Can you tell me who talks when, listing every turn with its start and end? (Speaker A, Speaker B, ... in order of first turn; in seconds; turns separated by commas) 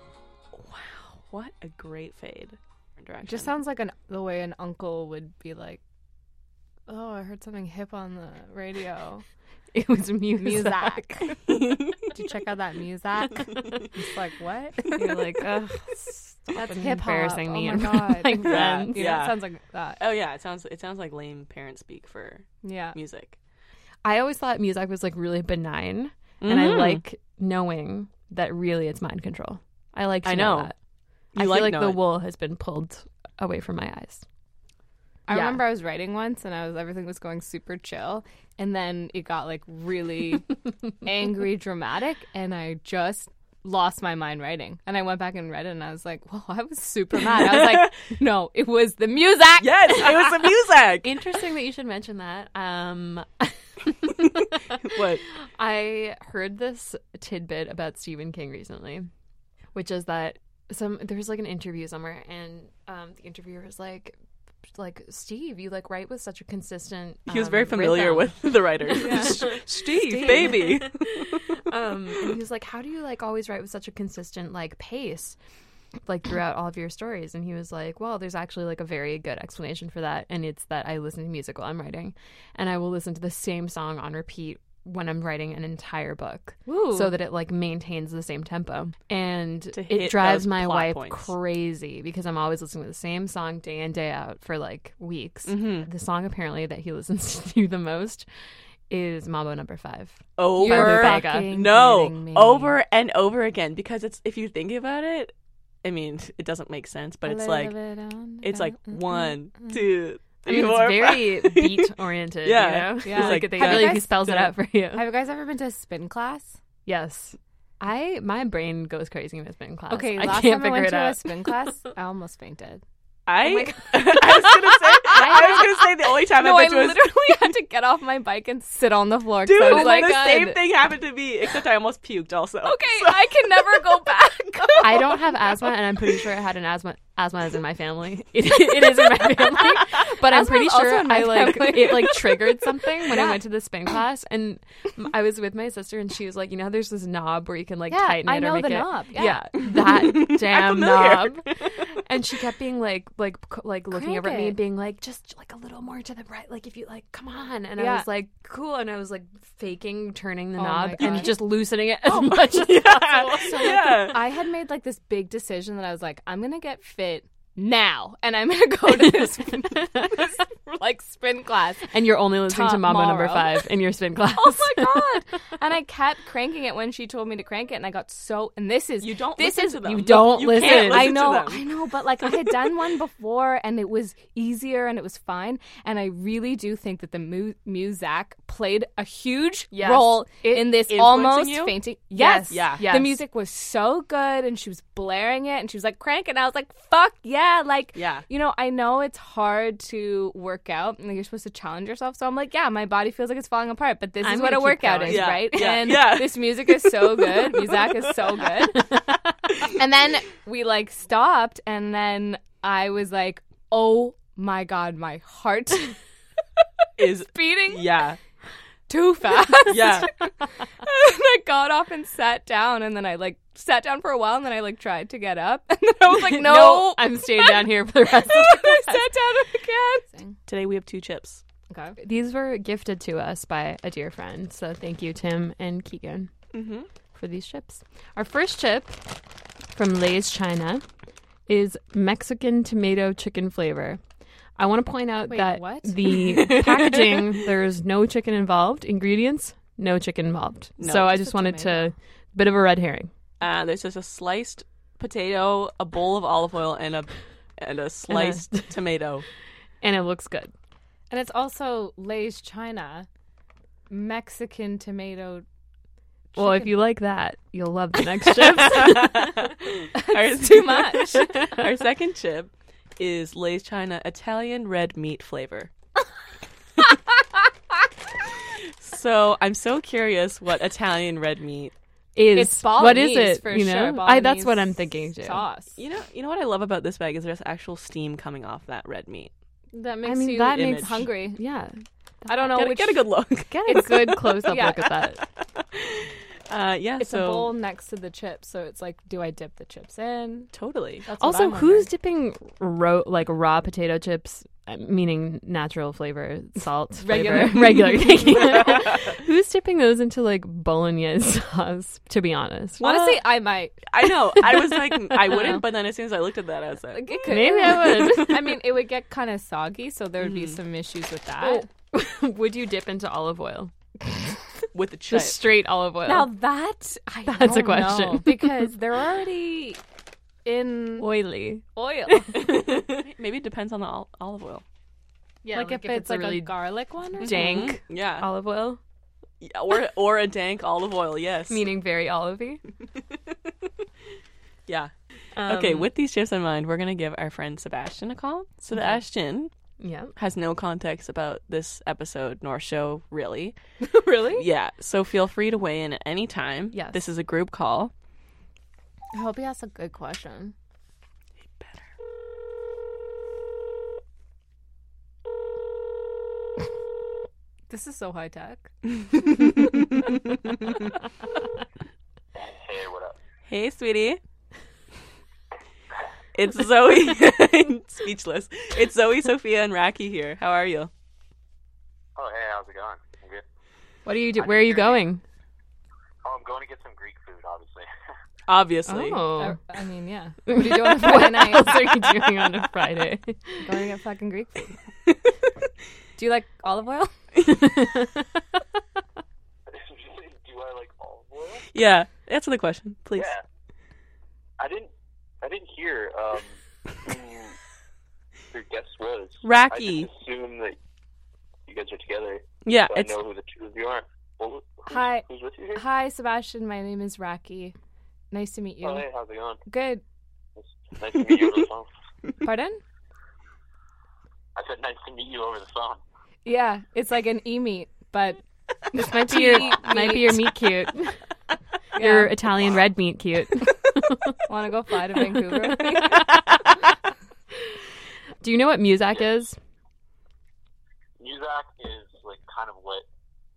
Speaker A: 0.6-3.5, Speaker B: 3.2-5.8, Speaker B: 6.9-9.2, Speaker C: 9.7-11.3, Speaker B: 10.4-11.3, Speaker A: 11.5-12.0, Speaker B: 12.1-14.9, Speaker A: 13.4-13.8, Speaker C: 14.9-19.0, Speaker B: 16.5-20.0, Speaker A: 18.4-19.4, Speaker A: 20.0-23.4, Speaker B: 22.6-23.0, Speaker C: 24.1-30.8, Speaker A: 26.4-27.0, Speaker A: 30.2-30.7, Speaker C: 31.3-34.2, Speaker A: 31.4-32.0, Speaker B: 35.3-50.4, Speaker C: 35.3-35.6, Speaker A: 47.2-48.0, Speaker A: 49.6-51.1, Speaker C: 51.0-54.5, Speaker A: 54.8-55.2, Speaker C: 55.4-59.1, Speaker C: 59.7-64.2, Speaker C: 64.8-75.4, Speaker A: 67.3-71.6, Speaker B: 69.0-69.4, Speaker B: 70.0-70.8, Speaker C: 76.1-98.3, Speaker B: 86.7-87.2, Speaker A: 89.7-91.3, Speaker A: 95.5-95.9, Speaker C: 98.9-101.5, Speaker A: 100.4-105.3, Speaker B: 100.6-102.8, Speaker A: 105.8-107.9, Speaker B: 107.2-109.8, Speaker A: 108.4-114.5, Speaker C: 110.5-115.0, Speaker B: 113.0-114.3, Speaker B: 114.9-116.6, Speaker C: 116.9-121.6, Speaker B: 119.9-122.8, Speaker A: 123.3-127.6, Speaker C: 123.4-124.5, Speaker B: 125.1-130.6, Speaker C: 125.2-125.6, Speaker A: 129.4-135.2, Speaker C: 129.7-130.1, Speaker B: 132.6-135.0, Speaker C: 134.8-164.1, Speaker B: 140.2-143.4, Speaker B: 147.9-149.4, Speaker A: 149.8-151.5, Speaker B: 153.9-154.6, Speaker B: 157.8-158.1, Speaker B: 160.6-161.6, Speaker A: 161.0-161.3, Speaker A: 162.1-164.4, Speaker B: 162.8-173.7, Speaker C: 169.0-170.1, Speaker C: 171.9-175.2, Speaker B: 174.3-208.9, Speaker A: 179.0-182.7, Speaker C: 180.3-181.2, Speaker C: 189.7-190.8, Speaker A: 190.9-191.8, Speaker C: 192.1-193.2, Speaker A: 192.5-193.0, Speaker A: 197.9-198.3, Speaker C: 204.2-205.3, Speaker A: 205.1-208.5, Speaker C: 208.8-209.3, Speaker B: 209.8-216.0, Speaker A: 217.0-218.2, Speaker B: 217.3-217.9, Speaker B: 218.9-220.2, Speaker A: 219.7-220.2, Speaker B: 220.8-230.4, Speaker C: 226.1-229.0, Speaker A: 230.5-231.4, Speaker B: 231.7-232.0, Speaker C: 232.0-236.3, Speaker A: 236.5-236.9, Speaker C: 237.2-239.0, Speaker C: 239.7-240.8, Speaker C: 241.5-244.0, Speaker C: 244.6-253.1, Speaker B: 245.2-245.9, Speaker A: 246.2-247.4, Speaker A: 250.8-251.2, Speaker B: 251.0-251.9, Speaker A: 253.4-259.3, Speaker C: 258.1-258.7, Speaker C: 259.8-260.5, Speaker B: 261.1-263.1, Speaker B: 263.9-265.5, Speaker B: 266.4-266.7, Speaker C: 266.4-269.5, Speaker A: 268.3-275.7, Speaker B: 269.9-271.5, Speaker A: 278.8-281.7, Speaker C: 282.1-285.4, Speaker B: 282.3-285.8, Speaker A: 285.8-289.3, Speaker B: 289.7-291.4, Speaker C: 290.0-292.6, Speaker A: 290.5-291.1, Speaker B: 292.3-293.0, Speaker A: 292.4-294.4, Speaker C: 293.5-295.2, Speaker B: 293.7-294.9, Speaker A: 295.6-297.5, Speaker B: 297.0-300.5, Speaker A: 300.5-301.1, Speaker B: 301.1-301.9, Speaker C: 301.2-313.0, Speaker B: 307.0-308.7, Speaker A: 307.8-309.0, Speaker B: 312.8-314.5, Speaker A: 312.8-313.2, Speaker A: 313.8-317.1, Speaker B: 315.2-315.7, Speaker B: 316.9-321.7, Speaker C: 317.3-318.6, Speaker A: 320.2-320.6, Speaker C: 321.4-323.7, Speaker A: 324.7-325.4, Speaker C: 325.1-326.3, Speaker B: 326.1-329.8, Speaker C: 327.3-328.7, Speaker B: 330.4-331.1, Speaker C: 331.0-331.7, Speaker B: 331.7-332.6, Speaker C: 332.3-332.9, Speaker A: 333.0-334.6, Speaker B: 335.4-337.7, Speaker C: 335.5-336.5, Speaker C: 337.2-338.8, Speaker A: 337.2-338.3, Speaker A: 339.4-341.6, Speaker C: 341.5-342.6, Speaker A: 344.7-344.9, Speaker C: 345.4-345.9, Speaker A: 345.5-349.5, Speaker C: 348.7-349.0, Speaker C: 349.8-350.1, Speaker A: 350.2-353.6, Speaker B: 353.8-354.4, Speaker A: 354.4-357.9, Speaker C: 356.7-357.0, Speaker B: 359.1-360.5, Speaker A: 361.5-361.9, Speaker B: 367.7-368.7, Speaker A: 369.2-369.4, Speaker D: 372.4-373.2, Speaker A: 373.5-374.2, Speaker A: 376.4-380.9, Speaker D: 382.2-383.4, Speaker C: 384.1-385.2, Speaker D: 384.4-385.0, Speaker D: 386.2-387.9, Speaker A: 388.5-389.5, Speaker C: 388.9-389.6, Speaker B: 389.3-392.3, Speaker C: 390.5-393.7, Speaker B: 393.6-394.8, Speaker B: 396.2-397.1, Speaker C: 397.4-398.3, Speaker D: 399.7-401.7, Speaker A: 401.7-403.3, Speaker D: 403.1-403.4, Speaker D: 404.6-404.9, Speaker D: 405.4-407.6, Speaker D: 408.5-410.8, Speaker A: 409.4-410.1, Speaker D: 411.7-415.8, Speaker A: 412.6-413.1, Speaker B: 414.9-417.8, Speaker B: 418.3-419.1, Speaker D: 418.8-419.6, Speaker B: 419.7-420.0, Speaker D: 420.6-421.9, Speaker B: 422.4-422.8, Speaker D: 424.6-426.0, Speaker B: 426.4-428.4, Speaker C: 428.9-431.2, Speaker B: 429.0-430.5, Speaker B: 432.0-432.4, Speaker C: 432.0-434.4, Speaker B: 434.5-436.2, Speaker C: 435.2-436.4, Speaker C: 438.4-439.6, Speaker D: 441.2-443.1